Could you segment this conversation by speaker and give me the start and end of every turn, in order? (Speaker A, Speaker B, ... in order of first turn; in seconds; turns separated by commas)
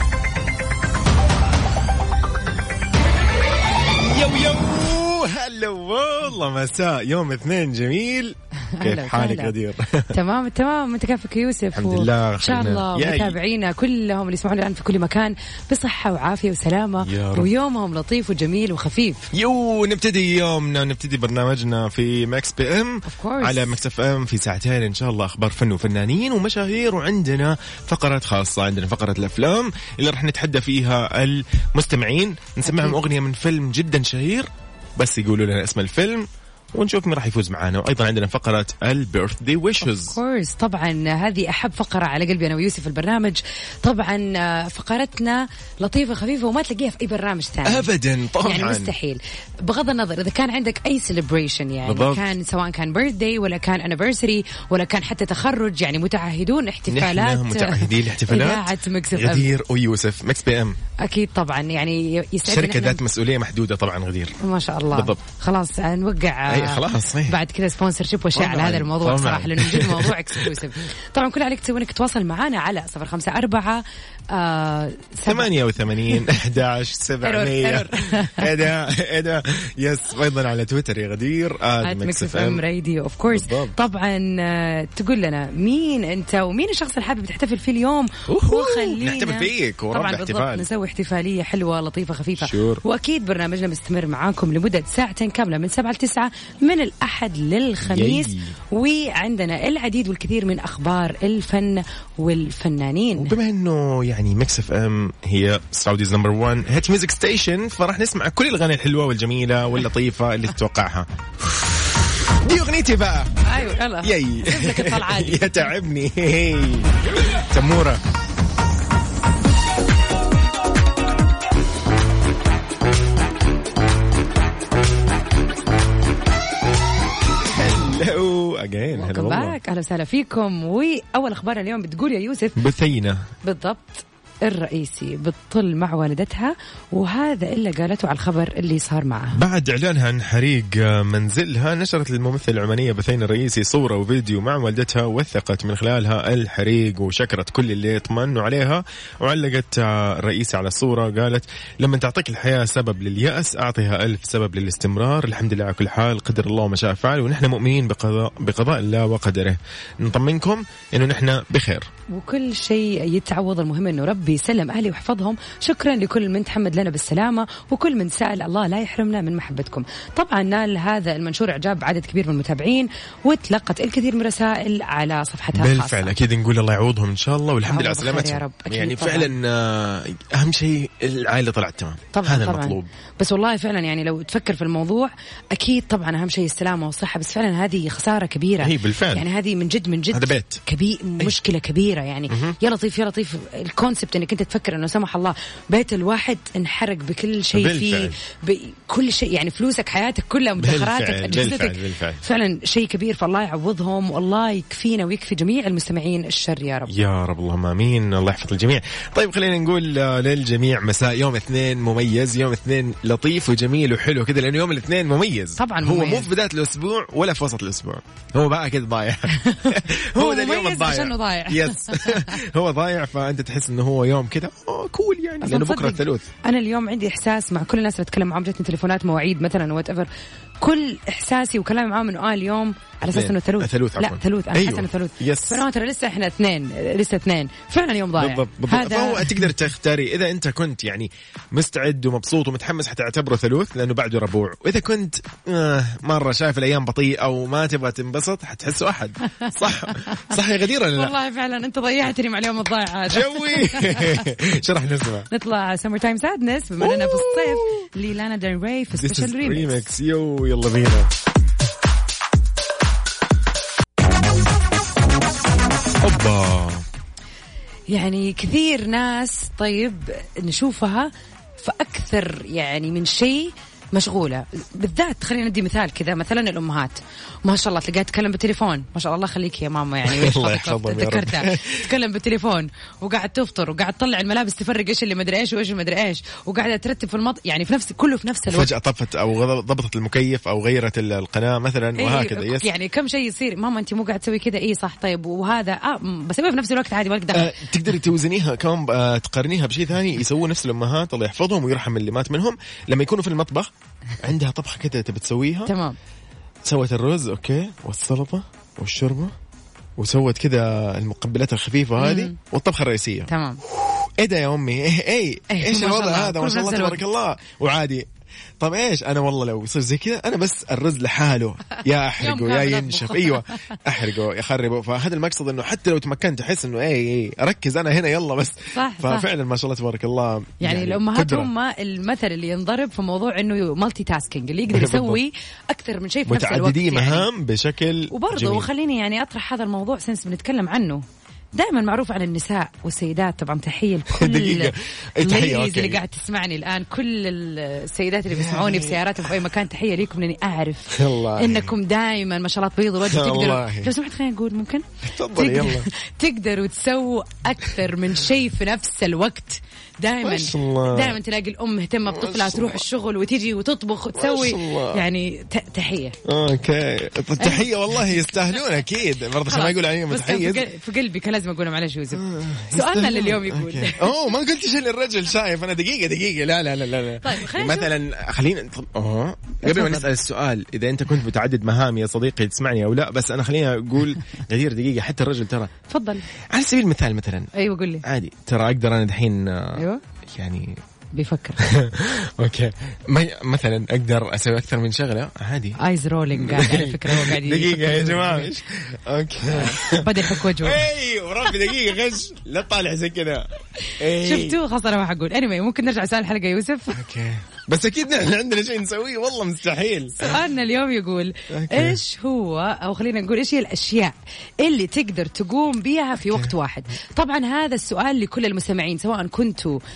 Speaker A: 4.0-10.2, Speaker B: 8.8-9.5, Speaker B: 10.1-19.3, Speaker A: 11.7-13.4, Speaker A: 17.0-17.5, Speaker A: 19.3-40.2, Speaker B: 23.1-23.7, Speaker B: 32.6-33.0, Speaker B: 39.8-47.9, Speaker A: 47.6-48.9, Speaker B: 48.4-59.5, Speaker A: 51.9-52.3, Speaker A: 56.9-60.8, Speaker B: 61.0-63.0, Speaker A: 62.5-64.3, Speaker B: 64.4-75.5, Speaker A: 64.9-65.2, Speaker A: 66.5-67.4, Speaker A: 68.3-70.6, Speaker A: 75.2-82.6, Speaker B: 77.2-78.4, Speaker B: 81.8-103.4, Speaker A: 83.3-83.8, Speaker A: 88.3-90.7, Speaker A: 92.4-92.8, Speaker A: 97.8-98.5, Speaker A: 103.2-113.3, Speaker B: 113.5-115.7, Speaker A: 114.0-118.0, Speaker A: 127.5-129.6, Speaker B: 128.9-132.6, Speaker A: 132.6-133.3, Speaker B: 133.4-139.4, Speaker A: 139.3-161.9, Speaker B: 162.1-176.2, Speaker A: 175.5-182.9, Speaker B: 177.7-179.3, Speaker B: 182.1-206.9, Speaker A: 188.6-189.2, Speaker A: 190.1-190.6, Speaker A: 192.3-192.6, Speaker A: 197.5-198.2, Speaker A: 200.6-202.2, Speaker A: 206.9-226.3, Speaker B: 215.6-216.3, Speaker B: 219.4-222.4, Speaker B: 225.4-230.1, Speaker B: 230.6-239.4, Speaker A: 233.1-235.6, Speaker A: 238.2-251.2, Speaker B: 249.9-250.4, Speaker B: 250.9-254.3, Speaker A: 253.1-255.3, Speaker B: 255.3-259.8, Speaker A: 256.8-257.9, Speaker A: 258.9-261.1, Speaker A: 266.0-266.9, Speaker B: 267.9-288.7, Speaker A: 280.0-281.8, Speaker A: 288.5-292.7, Speaker B: 292.0-297.6, Speaker A: 297.3-305.7, Speaker B: 305.7-306.0, Speaker A: 306.6-309.3, Speaker A: 310.0-318.1, Speaker B: 312.0-312.4, Speaker B: 313.3-313.6, Speaker B: 315.5-317.0, Speaker A: 318.6-331.5, Speaker B: 321.8-323.6, Speaker B: 328.7-329.3, Speaker B: 330.6-337.3, Speaker A: 334.7-335.2, Speaker A: 336.3-338.7, Speaker B: 338.1-341.0, Speaker B: 341.6-366.2, Speaker A: 344.1-346.0, Speaker A: 348.3-349.3, Speaker A: 350.9-351.7, Speaker A: 353.0-353.9, Speaker A: 355.0-355.9, Speaker A: 360.2-361.2, Speaker A: 362.1-362.9, Speaker A: 364.1-365.0, Speaker A: 366.2-370.7, Speaker B: 367.4-368.7, Speaker B: 369.5-374.1, Speaker A: 372.1-385.7, Speaker B: 377.2-377.9, Speaker B: 379.6-380.1, Speaker B: 385.9-386.2, Speaker A: 386.5-387.5, Speaker B: 387.6-388.0, Speaker A: 388.0-390.8, Speaker B: 389.8-390.0, Speaker B: 391.1-391.6, Speaker A: 391.6-395.8, Speaker B: 395.8-398.6, Speaker A: 396.3-404.6, Speaker B: 399.5-400.9, Speaker B: 404.1-407.0, Speaker A: 406.9-410.4, Speaker B: 410.2-419.8, Speaker A: 411.5-412.0